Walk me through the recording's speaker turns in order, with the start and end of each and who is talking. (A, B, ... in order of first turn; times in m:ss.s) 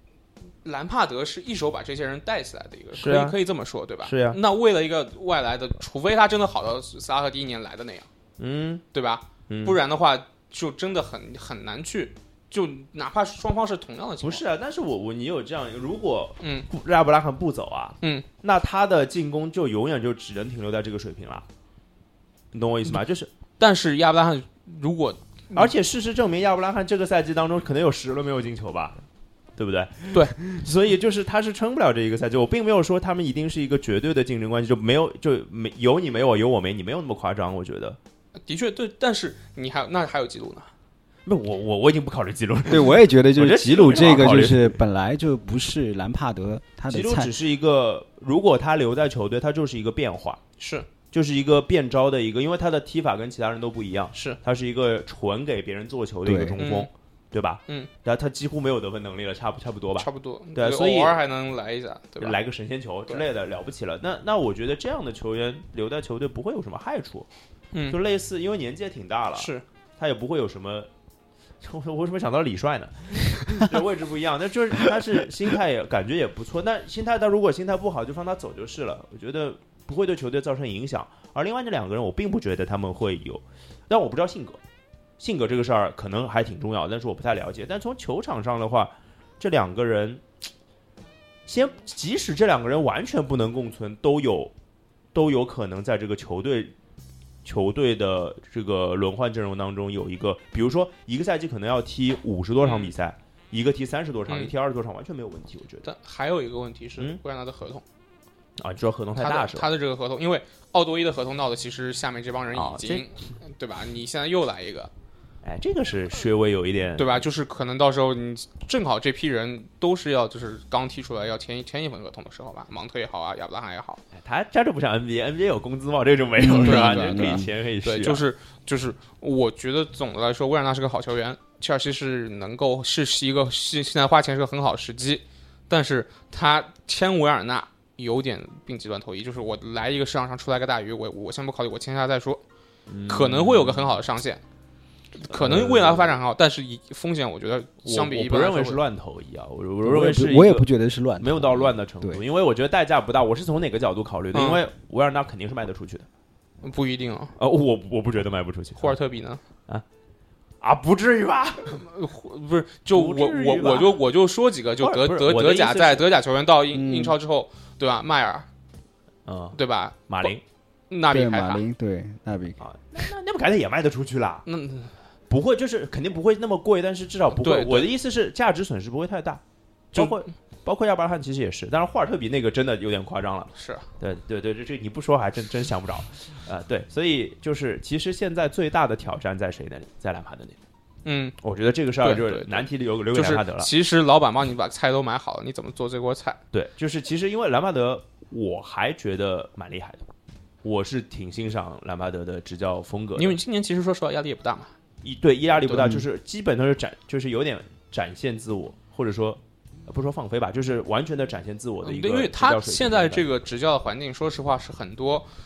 0:00.6-0:08.1 A
0:02.9-0:03.4 B
0:04.0-0:04.4 B
0:08.4-0:08.8 B
0:08.9-0:14.4 A
0:09.5-0:09.8 B
0:14.2-0:21.4 B
0:16.4-0:16.7 A
0:22.5-0:23.3 B
0:23.6-0:25.7 A
0:25.5-0:29.0 B
0:29.6-0:38.0 B
0:38.4-0:40.7 A
0:41.2-0:44.8 B
0:42.7-0:47.3 C
0:46.9-0:50.4 B
0:50.6-0:50.9 A
0:51.1-1:01.2 B
0:54.1-0:54.4 A
0:56.2-0:56.6 C
0:56.6-0:56.9 A
1:00.0-1:02.4 A
1:02.2-1:07.3 B
1:07.9-1:10.9 B
1:09.3-1:09.6 A
1:11.6-1:24.6 B
1:25.2-1:30.2 B
1:31.5-1:34.5 B
1:35.1-1:36.7 B
1:37.4-1:45.9 B
1:42.6-1:42.9 A
1:45.8-1:47.8 A
1:48.6-1:49.7 B
1:49.2-1:54.9 A
1:52.5-1:53.0 B
1:55.4-1:57.2 B
1:57.0-2:04.0 A
2:04.1-2:08.3 B
2:06.4-2:07.5 C
2:06.4-2:22.4 A
2:22.9-2:24.0 B
2:23.1-2:24.4 A
2:25.2-2:28.8 A
2:25.3-2:26.2 B
2:27.8-2:36.1 B
2:29.8-2:32.2 C
2:34.3-2:34.6 A
2:36.6-2:37.3 A
2:37.4-2:39.0 B
2:38.8-2:39.4 A
2:40.6-2:41.8 B
2:41.7-2:48.5 A
2:42.9-2:44.0 B
2:44.8-2:46.1 B
2:46.7-2:47.2 C
2:49.2-2:50.4 B
2:49.5-2:50.3 A
2:50.9-2:51.6 A
2:51.1-2:52.6 C
2:52.6-2:54.4 B
2:54.4-2:54.9 A
2:55.3-2:59.4 B
2:57.3-2:57.9 A
2:59.9-3:10.6 B
2:59.9-3:00.3 A
3:03.5-3:03.9 A
3:11.0-3:11.4 A
3:11.4-3:13.7 B
3:12.0-3:16.4 A
3:16.5-3:20.0 B
3:20.6-3:23.4 B
3:23.2-3:24.7 A
3:25.0-3:33.3 B
3:25.7-3:26.0 C
3:31.8-3:35.3 A